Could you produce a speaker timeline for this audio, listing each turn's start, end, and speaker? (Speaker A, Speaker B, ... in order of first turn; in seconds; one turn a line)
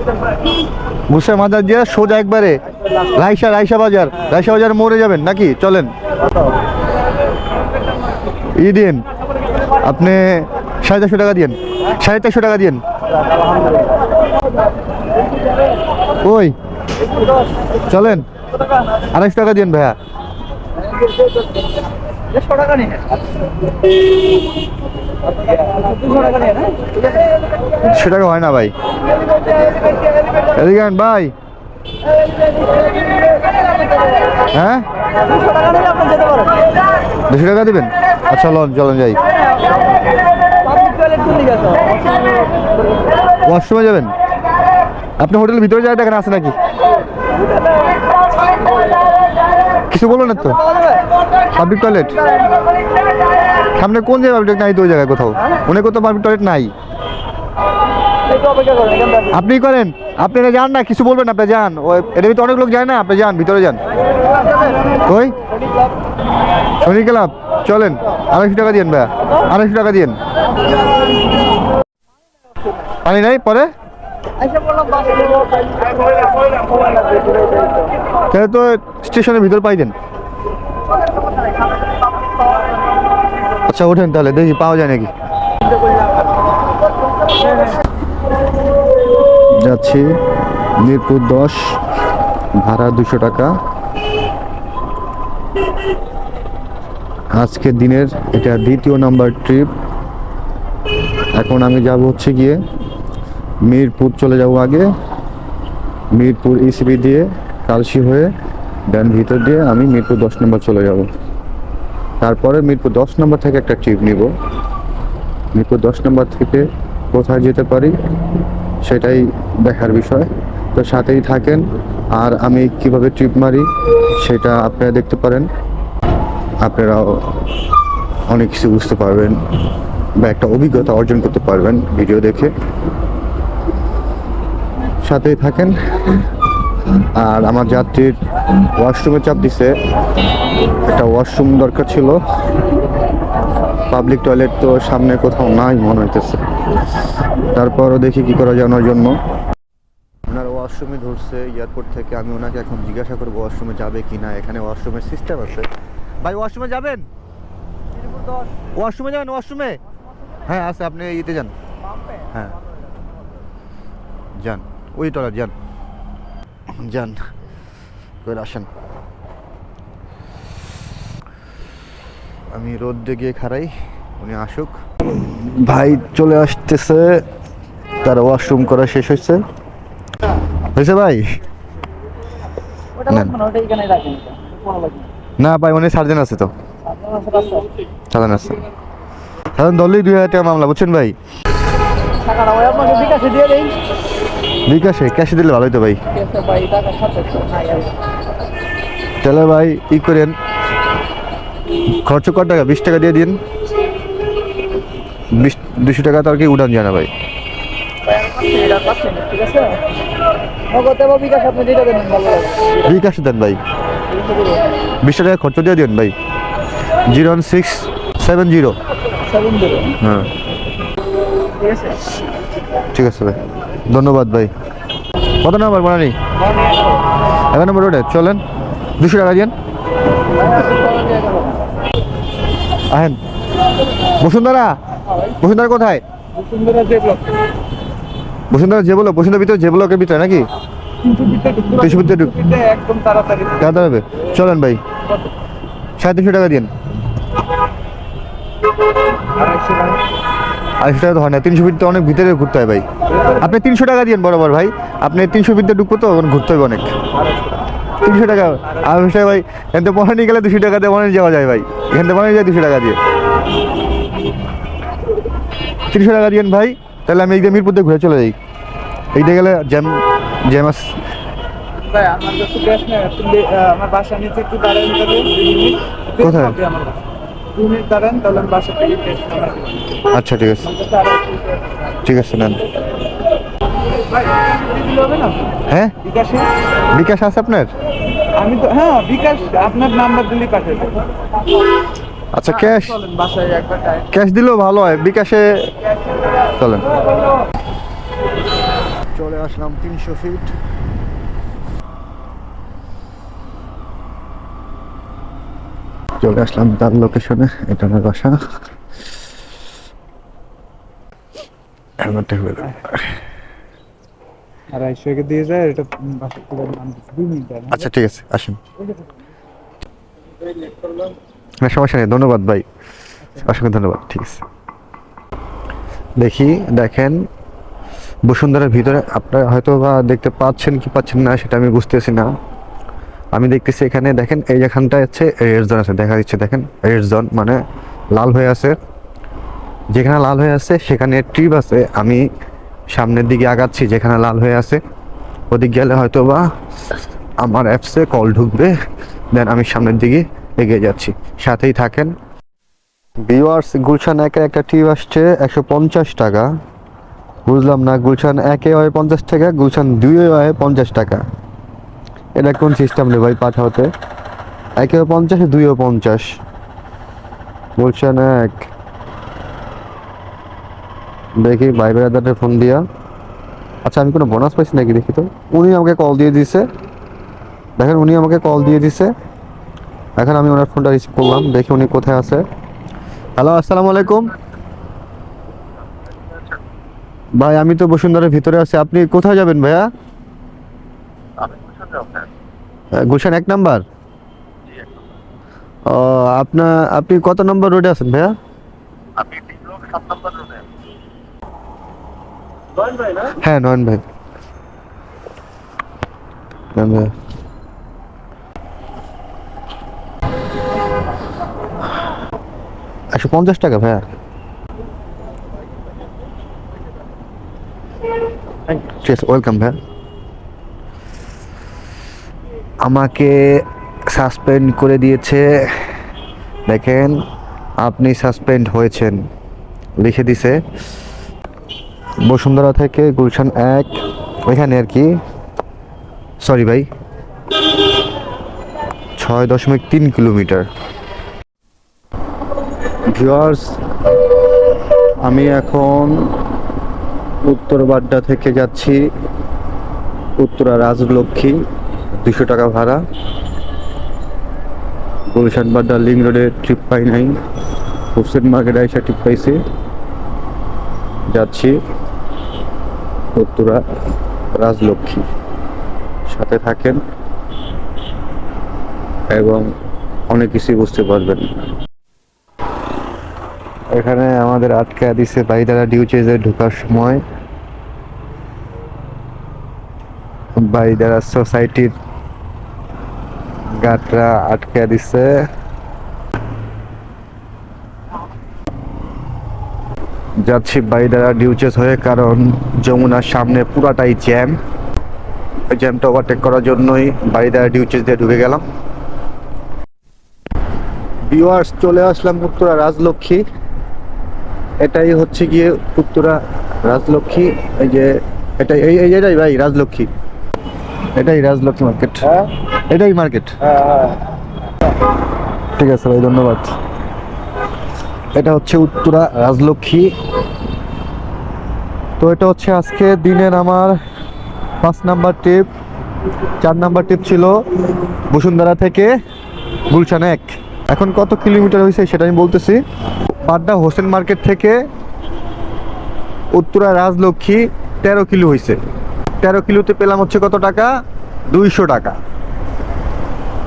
Speaker A: 1.1-5.9
Speaker A: 8.6-9.0
Speaker A: 9.8-12.8
Speaker B: 13.3-13.9
Speaker A: 16.2-16.5
Speaker A: 17.9-18.3
Speaker A: 19.1-20.0
Speaker B: 22.4-23.0
Speaker B: 25.5-27.0
Speaker A: 27.8-28.7
Speaker A: 30.5-31.3
Speaker A: 34.5-34.9
Speaker B: 35.3-36.5
Speaker A: 37.3-39.2
Speaker B: 40.7-42.0
Speaker A: 43.4-44.1
Speaker A: 45.2-46.6
Speaker A: 49.9-50.8
Speaker A: 51.5-52.2
Speaker A: 53.8-56.7
Speaker B: 58.4-59.2
Speaker A: 59.2-63.8
Speaker A: 65.0-65.3
Speaker A: 66.8-70.2
Speaker A: 73.0-73.7
Speaker B: 74.5-75.8
Speaker B: 76.8-77.6
Speaker A: 78.3-79.9
Speaker A: 83.7-85.1
Speaker A: 89.6-90.1
Speaker A: 90.8-91.8
Speaker A: 92.6-93.5
Speaker A: 97.3-99.7
Speaker A: 101.3-102.6
Speaker A: 103.6-104.9
Speaker A: 106.1-108.3
Speaker A: 108.9-111.1
Speaker A: 112.2-114.3
Speaker A: 115.5-117.9
Speaker A: 118.8-125.5
Speaker A: 126.6-127.5
Speaker A: 128.3-129.4
Speaker A: 130.2-132.5
Speaker A: 135.0-136.2
Speaker A: 136.9-138.2
Speaker A: 138.8-139.8
Speaker A: 140.8-142.2
Speaker A: 143.9-146.4
Speaker A: 147.5-149.2
Speaker A: 150.3-155.7
Speaker A: 156.2-157.1
Speaker A: 158.8-159.8
Speaker A: 160.4-161.5
Speaker A: 162.3-162.6
Speaker A: 164.4-165.5
Speaker A: 166.7-167.3
Speaker A: 168.2-168.7
Speaker A: 172.5-177.2
Speaker A: 178.0-179.4
Speaker A: 180.7-181.2
Speaker B: 183.0-185.1
Speaker A: 183.0-183.4
Speaker A: 185.4-186.5
Speaker B: 186.9-187.7
Speaker A: 188.1-188.6
Speaker A: 189.6-191.2
Speaker B: 192.2-193.8
Speaker A: 194.7-196.0
Speaker B: 196.1-197.9
Speaker A: 199.2-200.3
Speaker A: 202.0-203.4
Speaker A: 205.3-207.1
Speaker B: 208.1-209.8
Speaker B: 210.7-212.8
Speaker A: 212.7-213.6
Speaker A: 215.0-216.1
Speaker A: 217.1-218.8
Speaker B: 219.2-220.0
Speaker A: 220.0-220.3
Speaker A: 222.9-224.5
Speaker A: 225.4-226.2
Speaker A: 227.5-228.4
Speaker A: 229.0-229.5
Speaker B: 230.5-231.5
Speaker A: 232.9-233.2
Speaker A: 234.2-236.0
Speaker B: 236.3-237.3
Speaker A: 238.5-240.5
Speaker B: 241.0-243.7
Speaker A: 241.7-242.4
Speaker A: 243.6-244.8
Speaker A: 246.0-246.7
Speaker B: 249.3-250.0
Speaker A: 250.8-252.8
Speaker A: 253.4-256.9
Speaker A: 258.0-263.0
Speaker A: 265.9-268.4
Speaker A: 269.1-271.0
Speaker B: 271.7-280.0
Speaker A: 276.2-276.6
Speaker A: 280.1-280.7
Speaker B: 280.7-281.4
Speaker A: 282.0-282.6
Speaker B: 284.1-286.5
Speaker A: 285.7-286.0
Speaker A: 286.9-287.7
Speaker B: 288.3-291.1
Speaker A: 292.3-293.0
Speaker B: 292.6-294.1
Speaker A: 294.1-295.7
Speaker A: 296.6-296.9
Speaker A: 299.1-300.5
Speaker A: 306.2-308.4
Speaker A: 312.0-313.2
Speaker B: 314.7-317.8
Speaker A: 317.7-318.6
Speaker A: 321.6-322.7
Speaker A: 323.3-324.4
Speaker A: 326.2-327.2
Speaker A: 328.2-332.3
Speaker A: 333.3-337.6
Speaker A: 338.1-338.8
Speaker A: 339.9-342.3
Speaker A: 342.9-344.8
Speaker A: 345.5-346.4
Speaker A: 347.4-348.7
Speaker A: 349.3-352.1
Speaker A: 353.2-356.5
Speaker A: 357.4-361.2
Speaker A: 362.4-363.9
Speaker A: 364.8-366.4
Speaker A: 367.8-368.7
Speaker A: 371.4-372.8
Speaker A: 373.8-376.7
Speaker A: 377.8-379.1
Speaker A: 380.2-382.4
Speaker A: 383.4-384.3
Speaker A: 387.4-389.9
Speaker A: 392.9-393.8
Speaker A: 395.9-398.3
Speaker A: 399.9-400.2
Speaker A: 403.2-404.0
Speaker A: 406.7-407.1
Speaker A: 413.1-414.0
Speaker A: 418.8-419.8
Speaker A: 422.8-425.9
Speaker A: 426.7-427.2
Speaker A: 427.8-429.2
Speaker A: 430.0-430.6
Speaker A: 432.2-433.9
Speaker A: 434.4-435.1
Speaker A: 436.4-436.9
Speaker A: 439.2-440.7
Speaker A: 443.1-443.8
Speaker A: 445.2-446.4
Speaker A: 447.4-449.1
Speaker A: 450.4-451.6
Speaker A: 452.2-453.0
Speaker A: 455.3-457.4
Speaker A: 458.1-459.6
Speaker A: 461.3-461.8
Speaker A: 463.3-463.8
Speaker A: 464.5-465.2
Speaker A: 466.3-467.0
Speaker A: 469.3-469.7
Speaker A: 470.3-471.5
Speaker A: 473.9-477.2
Speaker A: 480.6-481.9
Speaker A: 483.8-485.4
Speaker A: 490.4-494.6
Speaker A: 495.7-498.6
Speaker A: 501.3-503.4
Speaker A: 504.8-510.1
Speaker A: 511.1-514.0
Speaker A: 515.8-516.8
Speaker A: 518.3-520.1
Speaker A: 522.2-524.0
Speaker A: 524.8-525.7
Speaker A: 526.6-527.6
Speaker A: 528.3-529.1
Speaker A: 529.9-532.8
Speaker A: 533.4-534.8
Speaker A: 536.5-538.8
Speaker A: 539.4-540.9
Speaker A: 541.5-542.2